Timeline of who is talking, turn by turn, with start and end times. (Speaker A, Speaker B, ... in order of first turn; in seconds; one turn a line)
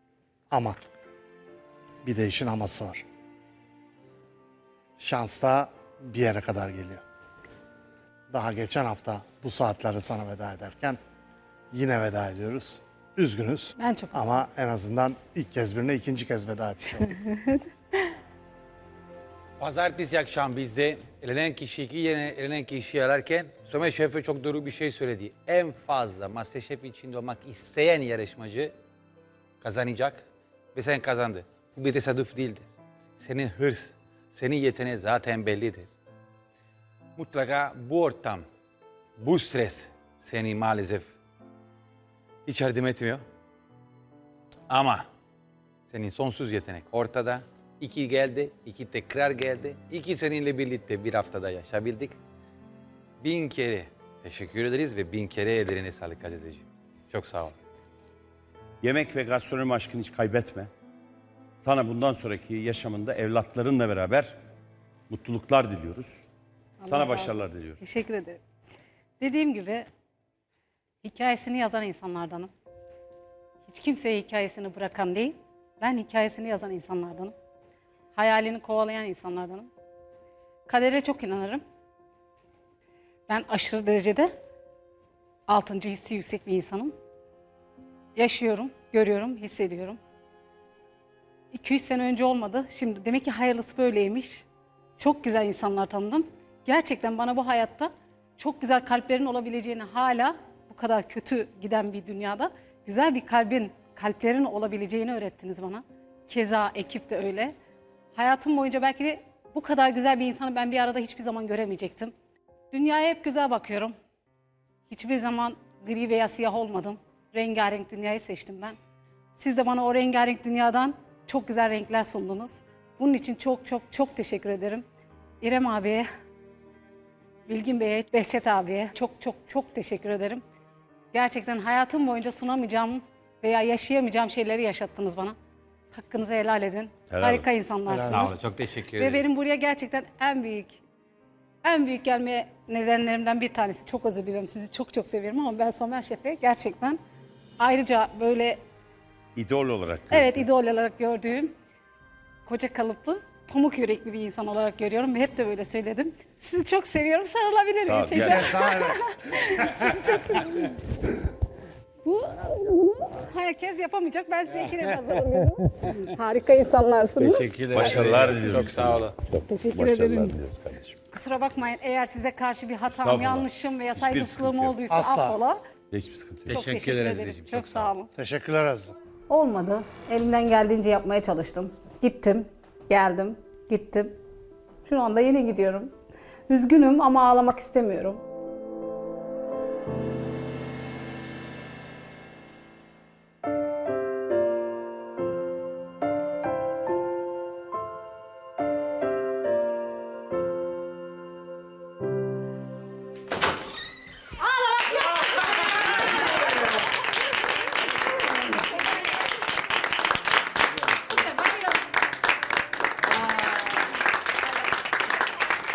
Speaker A: 0.5-0.8
Speaker A: 2.0-3.0
Speaker A: 5.0-7.0
Speaker A: 8.3-11.0
Speaker A: 11.7-17.2
Speaker B: 13.8-14.4
Speaker B: 17.2-17.6
Speaker C: 19.6-28.7
Speaker C: 29.6-32.7
Speaker C: 33.2-35.9
Speaker C: 37.1-38.5
Speaker C: 39.2-41.1
Speaker C: 42.5-43.2
Speaker C: 44.7-45.1
Speaker C: 45.9-52.2
Speaker C: 53.2-57.5
Speaker D: 58.8-60.7
Speaker D: 61.6-64.4
Speaker D: 65.1-66.2
Speaker B: 66.8-68.4
Speaker D: 66.9-67.8
Speaker B: 69.2-69.9
Speaker B: 71.0-72.5
Speaker B: 73.7-77.3
Speaker B: 78.1-79.7
Speaker B: 80.7-81.6
Speaker B: 83.3-84.3
Speaker B: 85.5-86.9
Speaker B: 88.2-90.0
Speaker B: 91.5-94.5
Speaker B: 95.0-107.5
Speaker B: 108.1-112.1
Speaker B: 112.7-113.9
Speaker B: 114.9-118.8
Speaker B: 119.4-124.8
Speaker B: 125.4-126.1
Speaker B: 127.5-130.4
Speaker B: 131.1-135.4
Speaker B: 135.9-140.8
Speaker D: 137.1-137.5
Speaker A: 137.9-138.3
Speaker C: 138.1-139.2
Speaker B: 141.6-147.0
Speaker B: 147.6-148.6
Speaker D: 149.3-150.4
Speaker B: 150.1-151.5
Speaker B: 152.4-160.8
Speaker D: 157.8-158.6
Speaker A: 158.1-159.9
Speaker B: 162.0-168.2
Speaker C: 167.2-169.2
Speaker D: 167.7-171.0
Speaker B: 169.5-170.4
Speaker B: 171.1-175.6
Speaker D: 173.0-174.8
Speaker A: 174.9-175.4
Speaker D: 175.9-176.6
Speaker C: 176.4-177.9
Speaker B: 176.5-178.1
Speaker A: 178.1-178.9
Speaker B: 179.3-184.2
Speaker B: 184.8-185.9
Speaker B: 186.5-188.2
Speaker B: 204.4-206.2
Speaker B: 208.7-209.0
Speaker B: 211.0-211.8
Speaker B: 213.1-213.9